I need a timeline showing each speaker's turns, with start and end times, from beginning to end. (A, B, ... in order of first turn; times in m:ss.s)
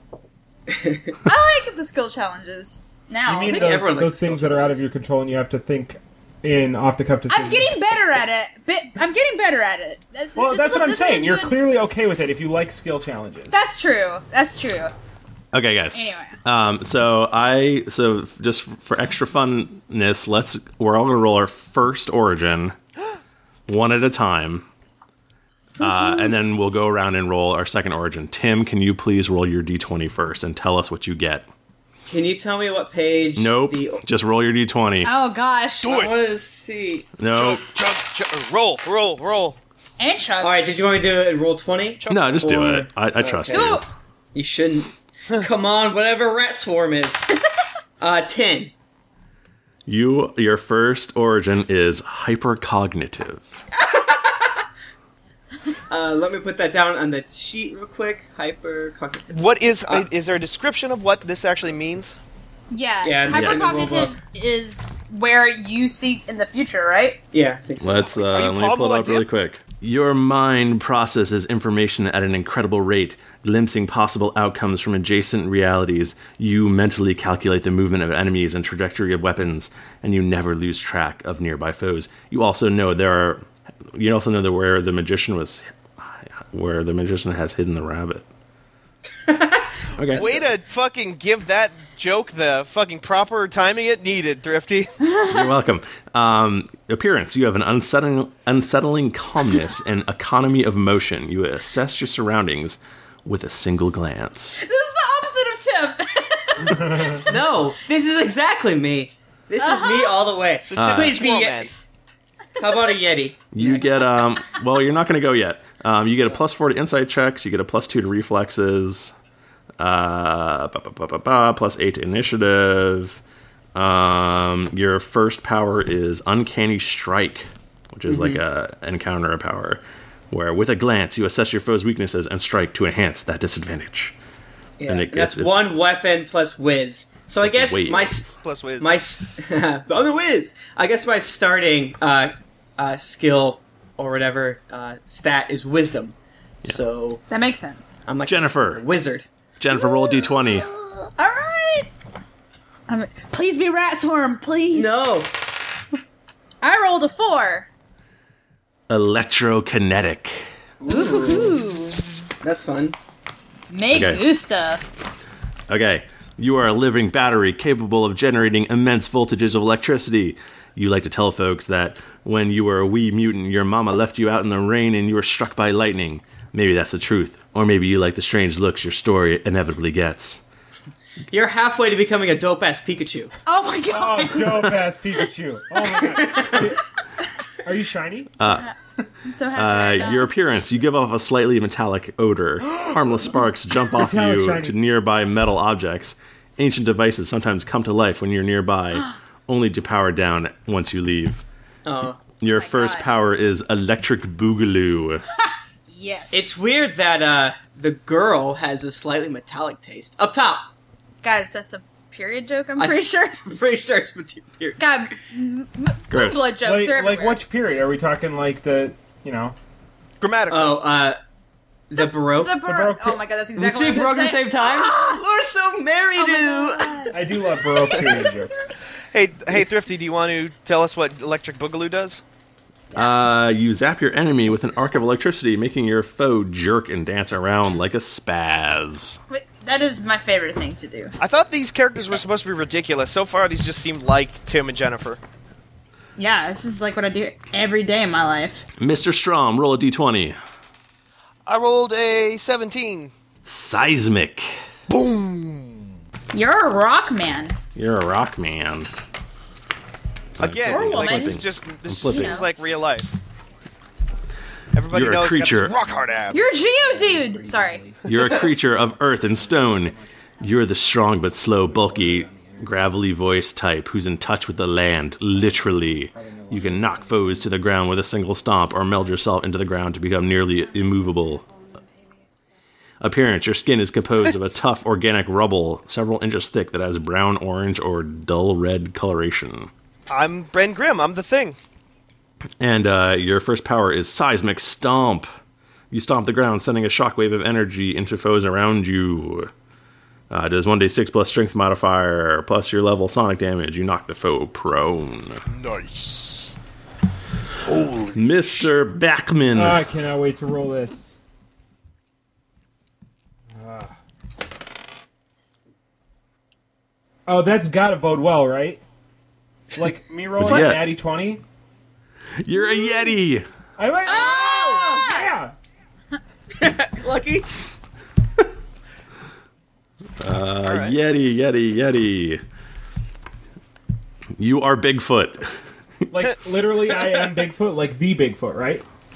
0:00.7-0:01.2 A
0:01.2-0:03.9 B
0:03.2-0:07.8 C
0:03.4-0:04.8 A
0:07.3-0:11.6 B
0:10.4-0:13.5 C
0:13.5-0:14.9 B
0:15.5-0:22.8 D
0:15.9-0:16.4 B
0:23.7-0:24.7 D
0:25.8-0:26.3 B
0:25.8-0:31.5 D
0:32.1-0:34.0 A
0:33.4-0:35.1 D
0:35.0-0:36.0 B
0:35.8-0:36.1 E
0:35.8-0:37.1 A
0:37.2-0:37.6 D
0:37.3-0:39.6 E
0:40.0-0:40.5 B
0:40.4-0:43.8 A
0:42.0-0:42.4 E
0:42.1-0:43.8 D
0:43.5-0:43.9 B
0:44.3-0:47.3 A
0:48.0-0:48.7 A
0:49.8-0:53.5 D
0:53.8-0:54.7 A
0:55.9-1:00.1 A
0:59.3-1:02.2 E
1:02.7-1:07.2 B
1:03.0-1:04.1 A
1:03.3-1:03.9 D
1:07.3-1:08.5 A
1:07.8-1:28.2 D
1:08.3-1:09.2 E
1:29.2-1:30.5 A
1:29.9-1:30.3 D
1:30.1-1:34.9 E
1:35.2-1:44.6 D
1:44.6-1:47.4 B
1:46.6-1:47.2 C
1:47.1-1:51.7 A
1:49.6-1:50.2 B
1:50.6-1:51.7 E
1:50.8-1:51.2 D
1:52.6-1:54.0 A
1:53.5-1:59.1 D
1:59.8-2:03.2 D
2:03.7-2:14.2 D
2:08.1-2:08.4 A
2:14.8-2:27.2 A
2:14.8-2:15.7 D
2:17.4-2:18.4 D
2:18.4-2:19.0 E
2:27.3-2:27.9 B
2:28.1-2:29.3 A
2:28.2-2:28.8 D
2:29.6-2:30.7 D
2:29.9-2:31.9 B
2:32.9-2:35.0 B
2:34.7-2:35.3 A
2:36.6-2:37.7 B
2:38.9-2:40.5 D
2:40.8-2:41.6 C
2:40.8-2:41.6 A
2:40.9-2:42.0 B
2:42.4-2:43.0 A
2:43.7-2:44.8 B
2:43.9-2:44.2 D
2:45.7-3:00.4 D
3:01.3-3:03.3 A
3:03.4-3:04.8 B
3:03.9-3:06.8 C
3:06.2-3:06.6 A
3:07.6-3:08.3 C
3:08.4-3:08.7 D
3:09.2-3:10.3 B
3:09.5-3:21.4 D
3:13.9-3:14.8 C
3:21.8-3:22.2 A
3:22.4-3:25.2 D
3:22.5-3:23.1 B
3:25.4-3:26.5 B
3:26.3-3:30.6 A
3:31.2-3:33.4 B
3:32.8-3:34.9 A
3:34.8-3:37.4 B
3:36.1-3:36.5 D
3:36.6-3:39.6 C
3:40.2-3:40.8 E
3:40.5-3:41.2 A
3:41.9-3:42.6 A
3:42.0-3:45.2 B
3:42.6-3:43.2 C
3:43.6-3:47.1 A
3:46.2-3:47.2 B
3:47.1-3:48.6 C
3:49.1-3:52.2 E
3:52.9-3:59.2 D
3:59.3-4:01.1 B
4:01.2-4:05.2 E
4:06.2-4:08.6 B
4:08.8-4:10.4 D
4:11.4-4:13.1 E
4:13.4-4:14.6 D
4:14.9-4:15.9 E
4:16.3-4:17.6 B
4:17.7-4:18.9 D
4:20.4-4:22.4 D
4:20.4-4:23.1 E
4:20.6-4:21.4 B
4:22.0-4:22.5 B
4:24.7-4:26.4 E
4:24.9-4:25.8 D
4:26.2-4:30.1 C
4:26.3-4:27.8 B
4:28.0-4:41.4 D
4:31.7-4:32.7 C
4:36.1-4:37.4 C
4:43.0-4:49.7 D
4:50.1-4:51.6 E
4:52.6-4:55.3 D
4:55.9-4:59.5 D
5:00.3-5:05.4 D
5:05.5-5:06.5 E
5:07.6-5:08.2 E
5:08.1-5:09.8 D
5:09.5-5:11.2 C
5:13.6-5:13.9 C
5:17.3-5:18.8 C
5:19.7-5:21.4 C
5:20.4-5:20.9 D
5:22.4-5:23.4 D
5:23.8-5:25.5 C
5:24.0-5:25.2 B
5:24.1-5:25.2 A
5:26.6-5:27.5 A
5:30.2-5:32.4 D
5:30.6-5:31.0 E
5:34.4-5:35.6 D
5:36.1-5:38.8 C